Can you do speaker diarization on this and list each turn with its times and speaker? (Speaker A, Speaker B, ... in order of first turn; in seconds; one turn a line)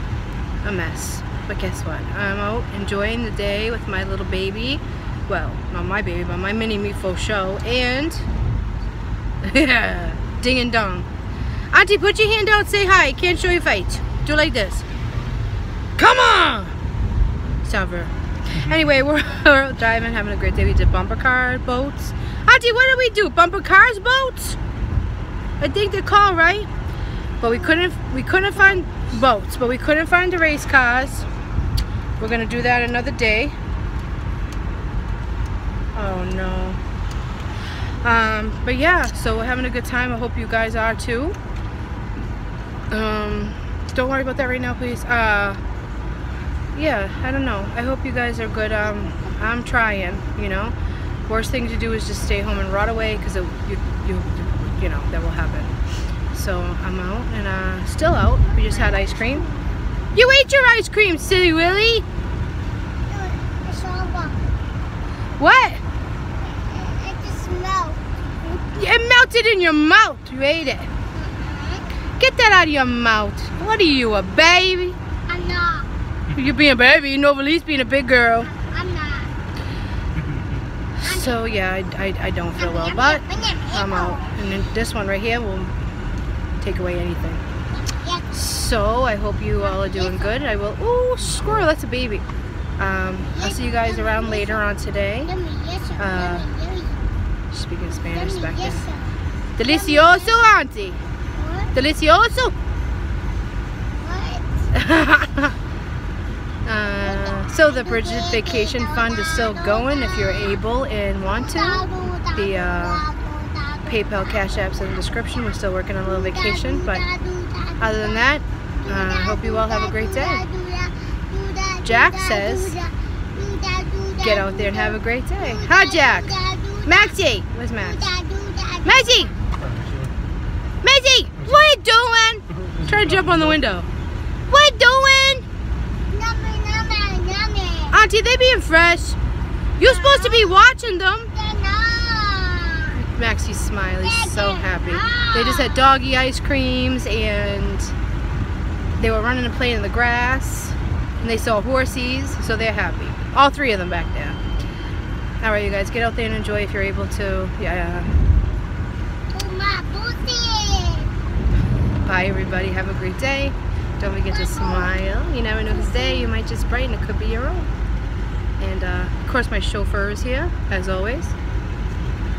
Speaker A: 0.6-8.2
Speaker A: 9.4-11.1
Speaker A: 11.7-14.8
Speaker A: 16.0-16.7
Speaker A: 17.6-24.6
Speaker A: 25.6-26.7
Speaker A: 27.4-31.3
Speaker A: 32.2-33.5
Speaker A: 35.9-36.8
Speaker A: 38.0-41.4
Speaker A: 42.9-45.6
Speaker A: 46.7-50.7
Speaker B: 49.0-49.3
Speaker A: 51.3-55.8
Speaker A: 56.3-59.4
Speaker B: 58.5-59.7
Speaker A: 60.1-62.0
Speaker B: 63.1-64.5
Speaker A: 65.4-65.8
Speaker B: 66.5-68.0
Speaker A: 68.4-70.9
Speaker B: 71.1-71.9
Speaker A: 72.2-75.0
Speaker B: 75.3-75.9
Speaker A: 76.3-78.5
Speaker B: 78.5-79.3
Speaker A: 81.0-85.7
Speaker B: 81.0-81.4
Speaker B: 82.6-84.3
Speaker A: 86.6-87.4
Speaker B: 87.8-88.3
Speaker A: 88.3-92.2
Speaker B: 89.6-90.4
Speaker A: 92.8-95.3
Speaker B: 93.3-94.6
Speaker B: 95.2-97.1
Speaker A: 96.0-96.5
Speaker A: 97.5-98.8
Speaker B: 98.1-100.4
Speaker A: 99.5-101.0
Speaker B: 101.3-101.7
Speaker A: 101.7-102.5
Speaker B: 104.0-104.5
Speaker A: 104.7-105.5
Speaker A: 106.6-113.1
Speaker B: 107.0-110.6
Speaker B: 111.3-118.2
Speaker A: 113.9-117.0
Speaker A: 117.8-120.4
Speaker B: 118.8-127.2
Speaker A: 121.8-122.8
Speaker A: 124.2-128.1
Speaker B: 127.8-129.3
Speaker A: 128.8-129.3
Speaker A: 130.8-133.9
Speaker A: 134.5-135.4
Speaker B: 136.1-138.0
Speaker A: 137.9-139.2
Speaker A: 139.8-141.3
Speaker B: 139.8-140.7
Speaker B: 141.3-142.9
Speaker A: 142.9-147.9
Speaker B: 144.0-145.9
Speaker A: 148.9-154.4
Speaker A: 155.4-158.2
Speaker B: 159.3-161.1
Speaker A: 162.0-167.7
Speaker B: 164.3-165.0
Speaker B: 165.6-166.3
Speaker A: 168.6-171.3